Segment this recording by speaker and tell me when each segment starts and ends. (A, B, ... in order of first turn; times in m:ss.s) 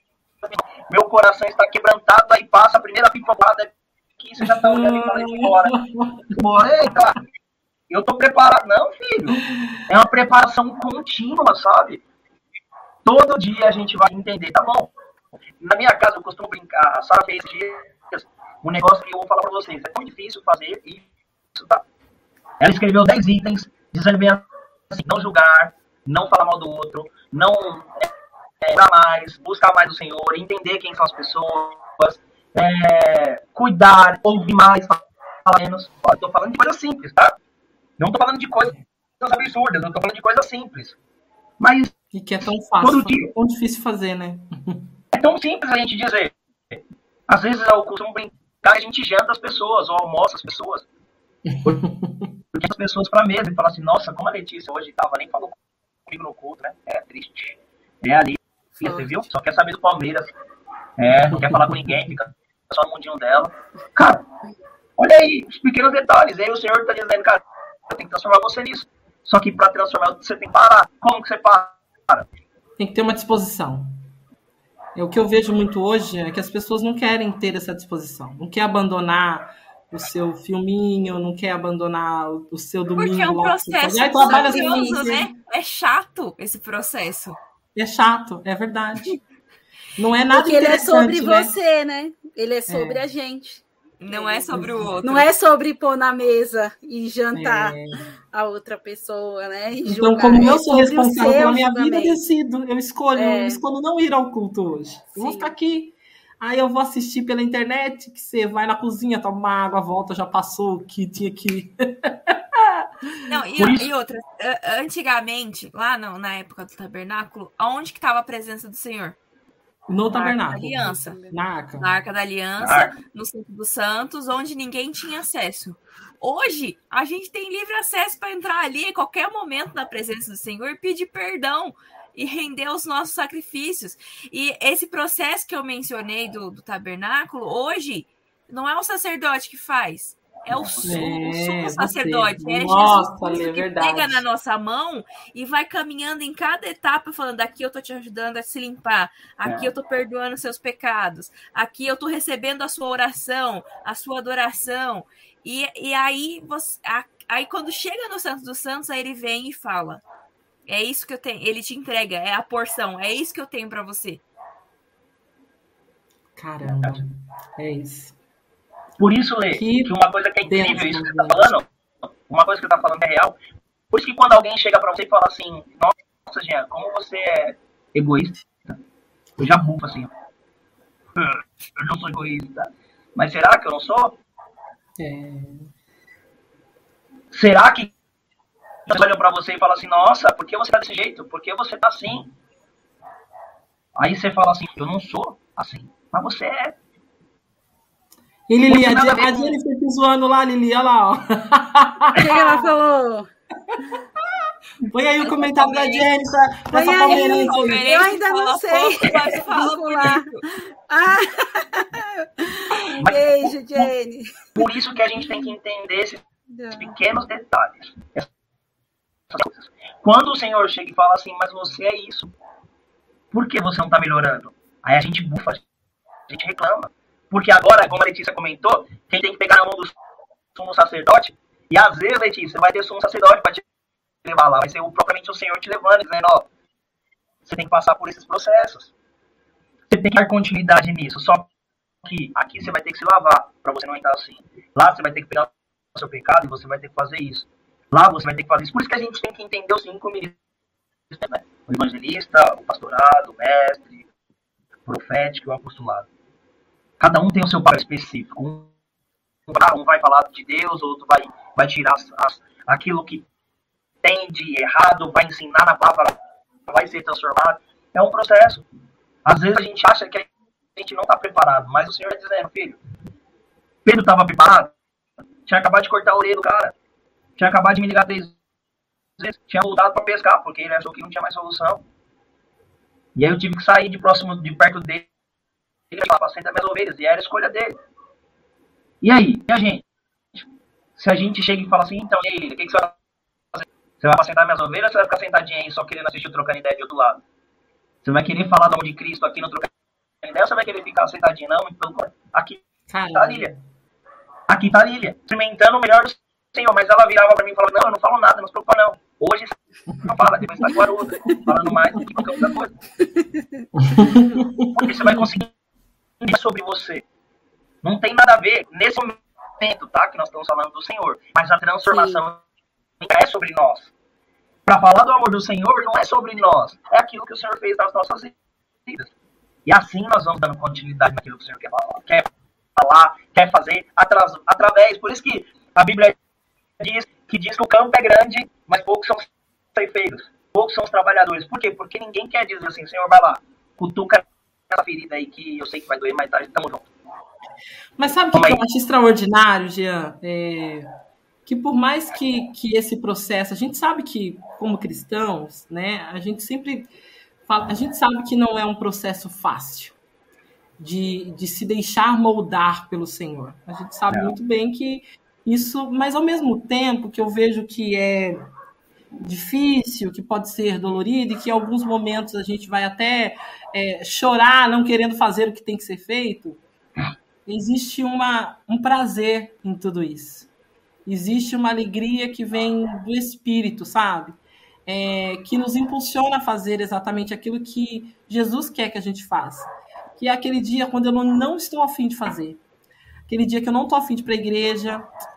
0:00.4-0:05.7 A
0:04.4-0:06.4 B
0:06.4-0:07.2 A
0:07.9-0:12.0 A
0:13.0-0:14.9 A
0:15.6-0:21.8 A
0:22.6-0:37.3 A
0:38.0-0:41.0 A
0:41.6-0:41.9 A
0:42.1-0:44.9 B
0:42.8-0:43.3 A
0:45.1-0:50.9 A
0:51.4-0:52.3 B
0:52.5-1:00.3 A
0:58.8-0:59.1 C
1:01.0-1:04.2 A
1:05.0-1:12.3 A
1:12.8-1:13.9 B
1:15.0-1:25.2 B
1:23.0-1:27.4 D
1:24.2-1:25.3 C
1:27.8-1:29.2 B
1:30.0-1:31.5 B
1:30.3-1:37.8 C
1:32.7-1:33.0 B
1:34.0-1:35.3 D
1:34.5-1:34.9 B
1:37.3-1:38.0 B
1:38.3-1:42.2 C
1:39.9-1:52.8 B
1:43.1-1:43.6 C
1:45.2-1:45.5 C
1:53.3-1:59.2 D
1:53.6-1:53.9 A
1:59.9-2:01.9 B
2:00.1-2:01.2 D
2:00.7-2:01.3 C
2:01.8-2:40.0 D
2:02.6-2:03.0 A
2:20.5-2:21.0 A
2:20.9-2:24.2 B
2:40.7-2:44.2 D
2:46.4-2:48.1 B
2:46.6-2:47.0 A
2:49.0-2:51.7 A
2:49.5-2:49.9 B
2:50.4-2:51.5 B
2:52.3-2:53.4 A
2:53.9-2:58.8 A
2:59.4-3:00.1 A
3:01.2-3:04.2 A
3:05.0-3:05.7 B
3:07.3-3:07.9 A
3:08.9-3:12.3 A
3:14.0-3:16.8 A
3:18.5-3:22.8 B
3:18.7-3:19.6 A
3:22.2-3:23.3 C
3:24.8-3:28.0 B
3:25.2-3:26.1 D
3:26.7-3:30.3 C
3:27.0-3:30.4 D
3:30.9-3:34.7 C
3:33.0-3:33.9 A
3:34.6-3:38.3 A
3:35.2-3:35.5 C
3:36.5-3:37.0 C
3:39.3-3:42.3 A
3:43.3-3:45.6 A
3:46.3-3:50.0 A
3:50.6-3:53.6 A
3:54.2-3:56.5 A
3:57.4-3:58.9 A
3:59.9-4:01.5 A
4:02.0-4:10.4 A
4:11.1-4:14.0 A
4:14.9-4:16.1 A
4:17.0-4:18.7 A
4:19.5-4:23.3 A
4:24.0-4:26.2 A
4:26.7-4:28.7 A
4:29.2-4:32.8 A
4:33.8-4:34.7 A
4:35.4-4:36.7 A
4:37.4-4:38.4 A
4:39.2-4:41.8 A
4:43.2-4:45.1 A
4:45.9-4:47.7 A
4:49.0-4:49.8 A
4:51.0-4:53.0 A
4:53.5-4:57.2 A
4:58.0-4:59.7 A
5:00.2-5:03.5 A
5:02.9-5:03.6 B
5:04.5-5:12.7 A
5:13.0-5:14.1 C
5:13.8-5:14.9 B
5:14.8-5:15.5 A
5:16.2-5:17.0 A
5:17.8-5:22.4 A
5:21.9-5:22.2 C
5:23.0-5:23.9 A
5:24.6-5:28.3 A
5:28.9-5:29.1 A
5:29.7-5:36.2 A
5:36.8-5:46.9 A
5:48.0-5:50.9 B
5:48.3-5:48.6 A
5:51.4-5:56.9 B
5:57.5-6:00.0 B
6:00.8-6:08.4 B
6:04.1-6:04.4 A
6:09.2-6:16.6 B
6:17.4-6:20.5 B
6:21.0-6:32.6 B
6:33.3-6:35.1 B